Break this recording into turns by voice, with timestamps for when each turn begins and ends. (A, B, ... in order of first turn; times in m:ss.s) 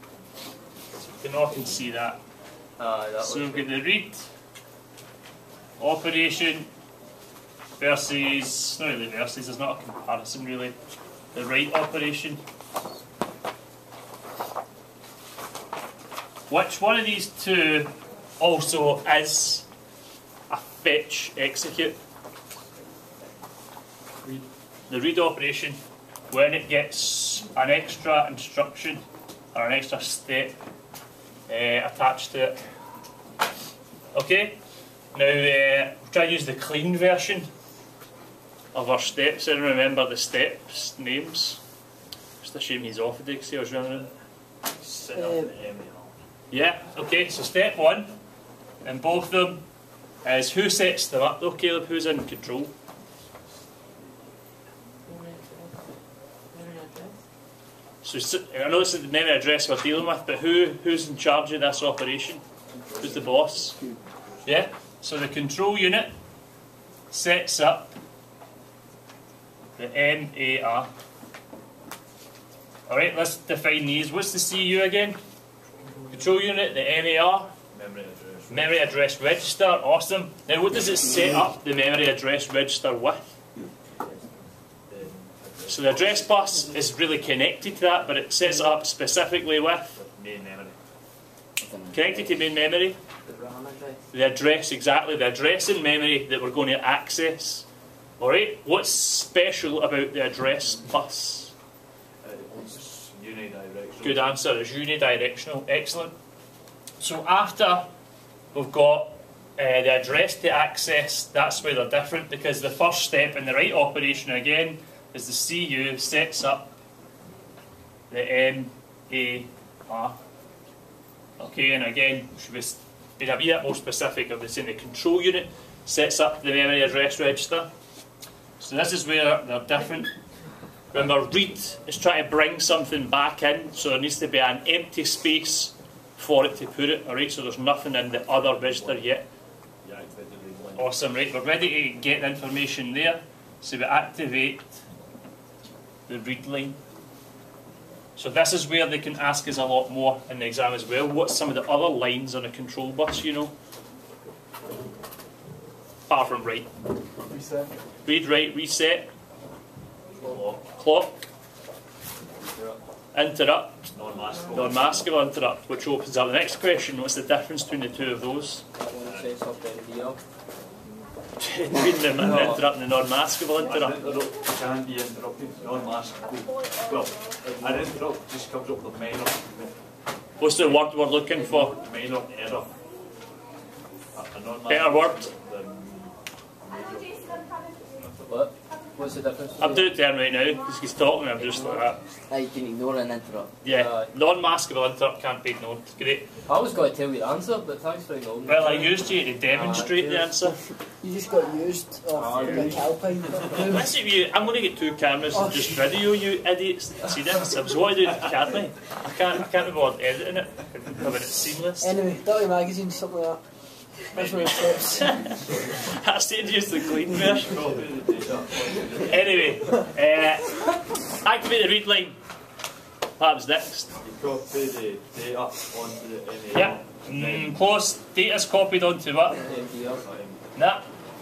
0:01.2-0:02.2 A
0:02.8-0:03.7 B
0:03.2-0:04.3 A
0:05.8-0:06.7 A
0:07.8-0:10.8 A
0:11.3-0:12.4 A
0:16.5-0:19.7 A
0:20.5-0:22.0 A
0:24.9-0:25.8 A
0:26.3-0:29.0 A
0:29.5-0:30.6 A
0:31.5-0:32.6 A
0:34.1-0:34.6 A
0:35.1-0:37.5 A
0:38.7-0:41.6 A
0:42.4-0:44.1 A
0:44.8-0:46.1 C
0:45.1-0:45.5 D
0:46.5-0:48.1 A
0:48.8-0:49.6 A
0:50.2-0:52.7 A
0:55.1-0:55.7 B
0:56.6-0:57.1 B
0:58.0-1:02.4 A
1:02.8-1:03.2 E
1:03.0-1:03.8 A
1:03.8-1:04.0 E
1:04.4-1:06.1 A
1:07.1-1:08.0 A
1:09.8-1:10.9 A
1:12.9-1:15.2 A
1:16.1-1:17.5 A
1:17.7-1:18.8 C
1:18.5-1:23.4 A
1:24.9-1:26.4 C
1:25.7-1:30.0 A
1:29.9-1:30.8 C
1:31.6-1:32.4 E
1:31.9-1:33.0 A
1:33.3-1:34.0 E
1:34.1-1:37.7 A
1:38.2-1:41.5 A
1:42.2-1:44.4 C
1:44.0-1:46.2 A
1:47.0-1:47.9 A
1:48.5-1:56.7 A
1:58.1-2:00.2 A
2:01.4-2:07.7 A
2:08.6-2:10.1 A
2:10.9-2:19.2 A
2:18.4-2:19.1 C
2:19.8-2:21.2 C
2:20.8-2:24.8 A
2:26.1-2:26.8 A
2:28.2-2:33.5 A
2:36.1-2:36.7 A
2:38.0-2:39.1 A
2:40.2-2:40.6 C
2:40.6-2:41.3 A
2:42.4-2:42.8 C
2:43.1-2:43.9 A
2:43.9-2:44.9 C
2:44.5-2:48.6 A
2:48.8-2:50.2 B
2:49.0-2:49.4 C
2:51.4-2:54.1 A
2:52.2-2:52.6 B
2:53.6-2:59.8 C
3:00.4-3:01.8 A
3:00.4-3:00.8 C
3:01.6-3:02.7 C
3:04.2-3:07.7 C
3:04.7-3:05.3 A
3:08.3-3:09.9 B
3:09.6-3:12.0 A
3:11.4-3:11.8 B
3:12.3-3:13.5 E
3:13.6-3:16.3 A
3:13.7-3:14.1 B
3:16.5-3:20.4 B
3:18.5-3:20.6 A
3:21.0-3:23.9 D
3:22.1-3:23.0 B
3:23.6-3:31.9 A
3:25.3-3:25.8 D
3:31.8-3:33.4 D
3:34.1-3:35.5 D
3:34.1-3:35.7 C
3:34.8-3:37.7 A
3:37.4-3:39.8 C
3:39.0-3:42.2 A
3:43.2-3:43.9 A
3:44.0-3:47.6 C
3:46.5-3:49.4 A
3:49.4-3:50.0 B
3:49.9-3:50.5 C
3:50.6-3:50.8 A